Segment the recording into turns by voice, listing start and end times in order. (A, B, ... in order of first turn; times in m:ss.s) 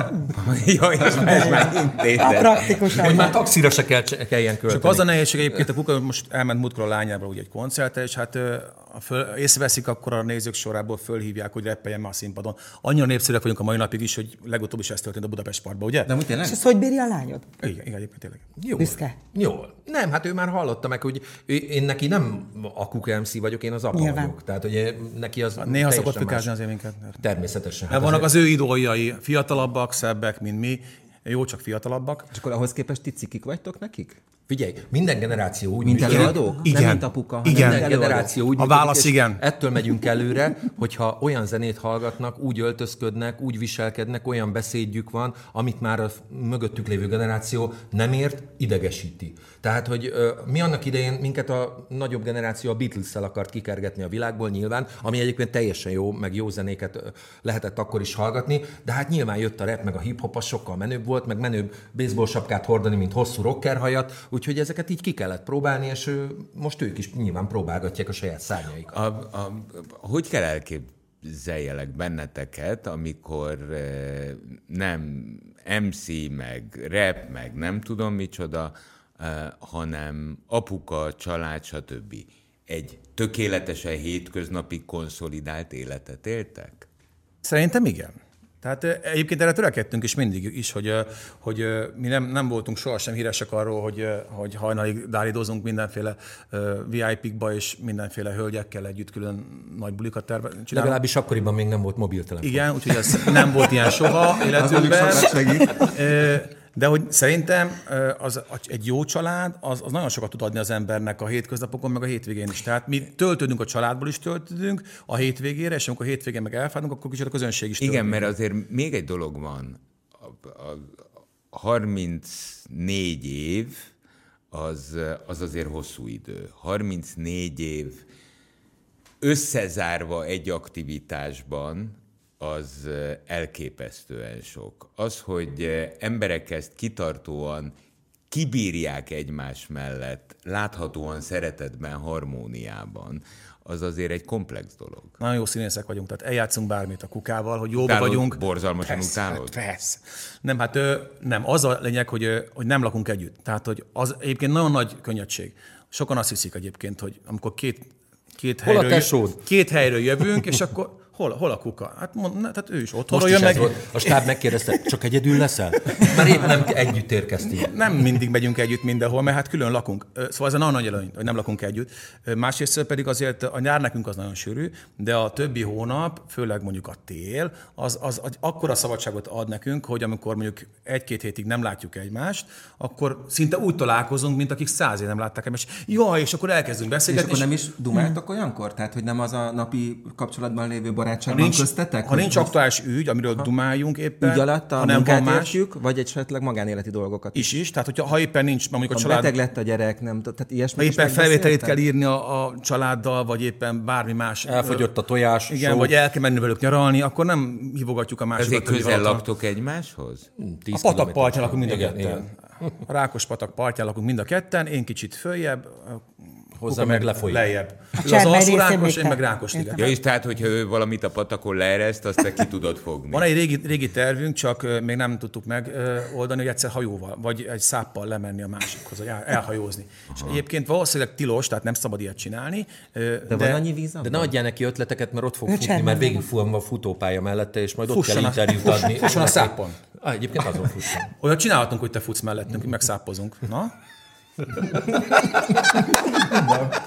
0:00.3-0:03.2 A
0:01.2-0:03.4 B
0:02.9-0:05.6 C
0:04.7-0:16.1 D
0:16.0-0:16.6 E
0:16.4-0:17.5 B
0:17.6-0:18.4 D
0:18.6-0:26.5 C
0:18.8-0:19.1 B
0:23.9-0:24.3 B
0:25.6-0:27.2 D
0:27.2-0:28.3 C
0:27.9-0:32.3 D
0:32.3-0:34.2 E
0:34.5-0:36.4 C
0:35.8-0:38.3 E
0:36.1-0:37.9 D
0:37.5-1:09.0 C
0:38.6-0:39.4 D
1:08.9-1:26.9 A
1:27.4-1:41.0 D
1:40.7-1:43.5 C
1:42.4-1:58.3 D
1:44.4-1:45.9 E
1:57.8-2:01.0 A
2:01.5-2:03.9 A
2:04.5-2:08.0 A
2:09.2-2:17.7 A
2:18.3-2:25.1 A
2:25.2-2:44.1 D
2:27.8-2:29.6 A
2:38.6-2:39.4 C
2:43.1-2:47.8 C
2:47.6-3:07.5 D
3:07.1-3:12.5 E
3:11.3-3:15.6 D
3:14.2-3:17.6 E
3:17.3-3:19.3 D
3:18.9-3:21.8 E
3:20.8-3:24.9 D
3:24.4-3:25.9 C
3:25.5-3:29.2 D
3:28.4-3:30.3 A
3:30.4-3:32.6 C
3:30.7-3:32.3 D
3:32.8-3:36.0 D
3:36.6-3:37.5 C
3:36.6-3:39.8 D
3:38.0-3:39.9 B
3:39.8-3:43.3 A
3:43.1-3:53.6 D
3:53.3-3:54.3 E
3:54.0-4:01.1 C
3:55.5-3:56.2 B
3:57.9-3:59.8 D
4:01.2-4:03.7 D
4:06.3-4:06.6 C